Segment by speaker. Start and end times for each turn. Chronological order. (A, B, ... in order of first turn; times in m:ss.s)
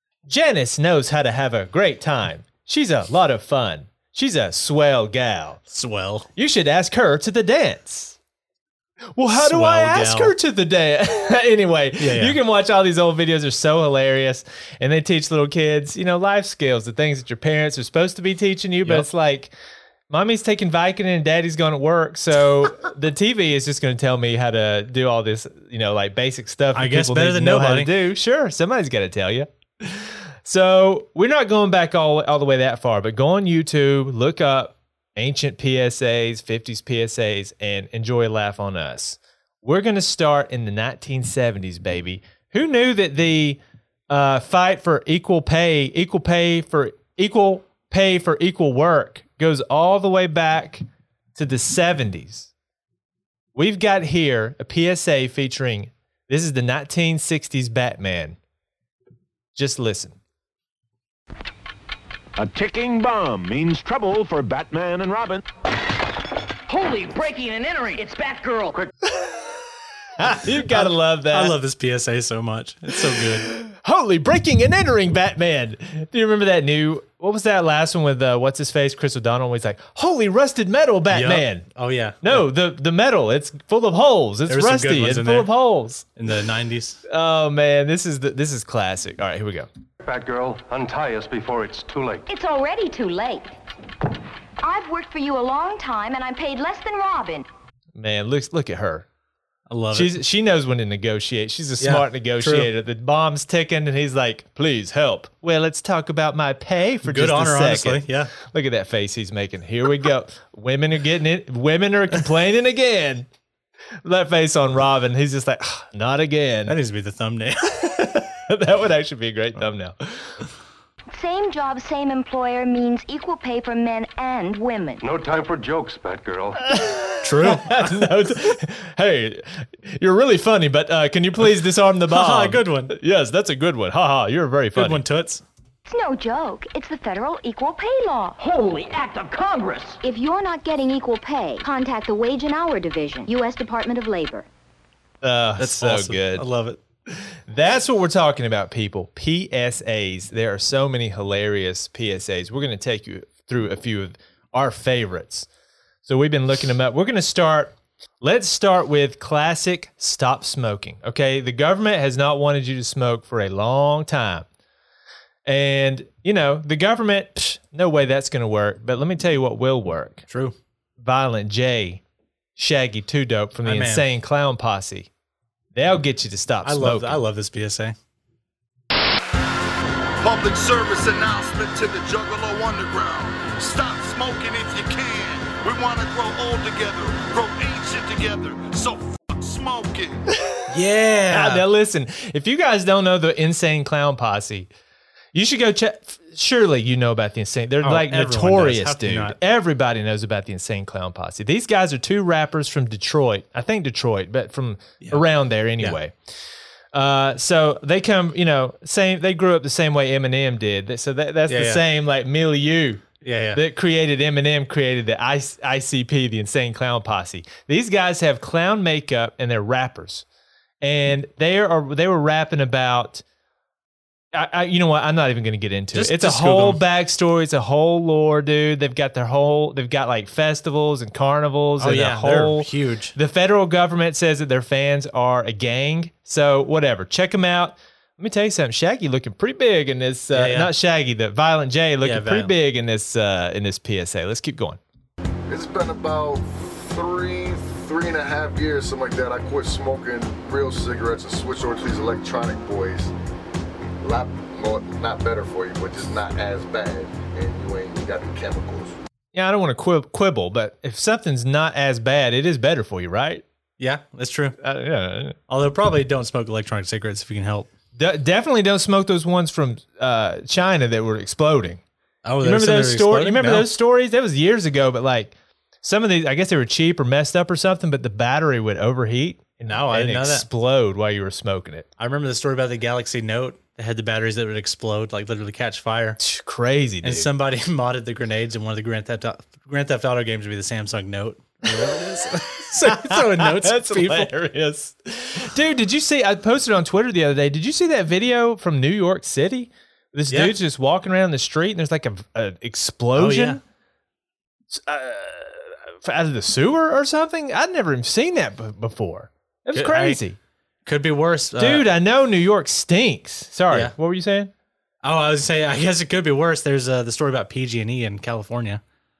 0:00.2-0:05.6 A
0:05.7-0:06.3 B
0:06.4-0:08.2 A
0:09.1-0:19.5 A
0:09.4-0:10.3 B
0:12.0-0:12.4 B
0:20.1-0:50.8 A
0:26.8-0:27.9 B
0:51.4-0:52.5 A
0:53.5-0:58.4 A
0:59.5-1:00.2 A
1:02.4-1:05.4 C
1:06.7-1:08.8 D
1:10.2-1:11.5 A
1:10.4-1:13.5 B
1:13.0-1:21.6 A
1:21.1-1:22.4 B
1:22.2-1:26.1 A
1:24.5-1:25.5 B
1:26.2-1:27.0 B
1:27.1-1:29.7 A
1:30.0-1:32.2 E
1:32.2-1:33.5 F
1:34.6-1:37.4 F
1:37.9-1:39.1 A
1:39.7-1:40.1 B
1:39.9-1:53.3 A
1:41.8-1:42.7 B
1:47.1-1:48.3 B
1:54.0-1:56.8 A
1:56.7-1:57.8 B
1:57.8-2:00.3 A
2:01.1-2:05.0 F
2:05.0-2:06.6 E
2:06.7-2:15.0 A
2:07.2-2:08.1 B
2:12.1-2:12.9 B
2:14.8-2:15.4 B
2:15.9-2:18.4 F
2:18.4-2:20.0 D
2:20.0-2:24.4 F
2:25.2-2:26.4 A
2:25.6-2:26.8 B
2:27.1-2:35.5 A
2:36.0-2:44.4 A
2:45.4-2:50.2 A
2:50.3-2:50.5 B
2:51.0-2:52.0 A
2:52.6-2:55.1 A
2:53.6-2:54.0 B
2:55.7-2:57.2 A
2:56.6-2:57.9 B
3:00.4-3:10.2 G
3:10.7-3:11.6 B
3:11.3-3:14.7 A
3:15.3-3:26.1 A
3:17.8-3:19.4 B
3:26.9-3:40.2 A
3:31.5-3:31.8 B
3:33.2-3:33.6 B
3:40.8-3:43.2 A
3:44.3-4:04.8 A
3:45.9-3:46.8 B
3:51.8-3:53.1 B
4:00.3-4:00.7 B
4:02.0-4:02.5 B
4:05.5-4:08.8 H
4:09.6-4:13.1 H
4:14.0-4:18.9 H
4:19.3-4:23.4 A
4:23.8-4:24.6 B
4:24.6-4:25.4 A
4:25.5-4:27.7 B
4:27.9-4:31.8 A
4:32.2-4:33.7 B
4:32.4-4:41.9 A
4:39.7-4:40.5 B
4:42.0-4:46.2 B
4:46.2-4:47.3 A
4:47.0-4:54.3 B
4:52.8-5:03.6 A
5:00.3-5:00.5 B
5:03.2-5:03.6 B
5:04.7-5:10.4 A
5:09.7-5:10.2 B
5:10.9-5:11.9 B
5:11.6-5:14.5 A
5:15.0-5:18.8 B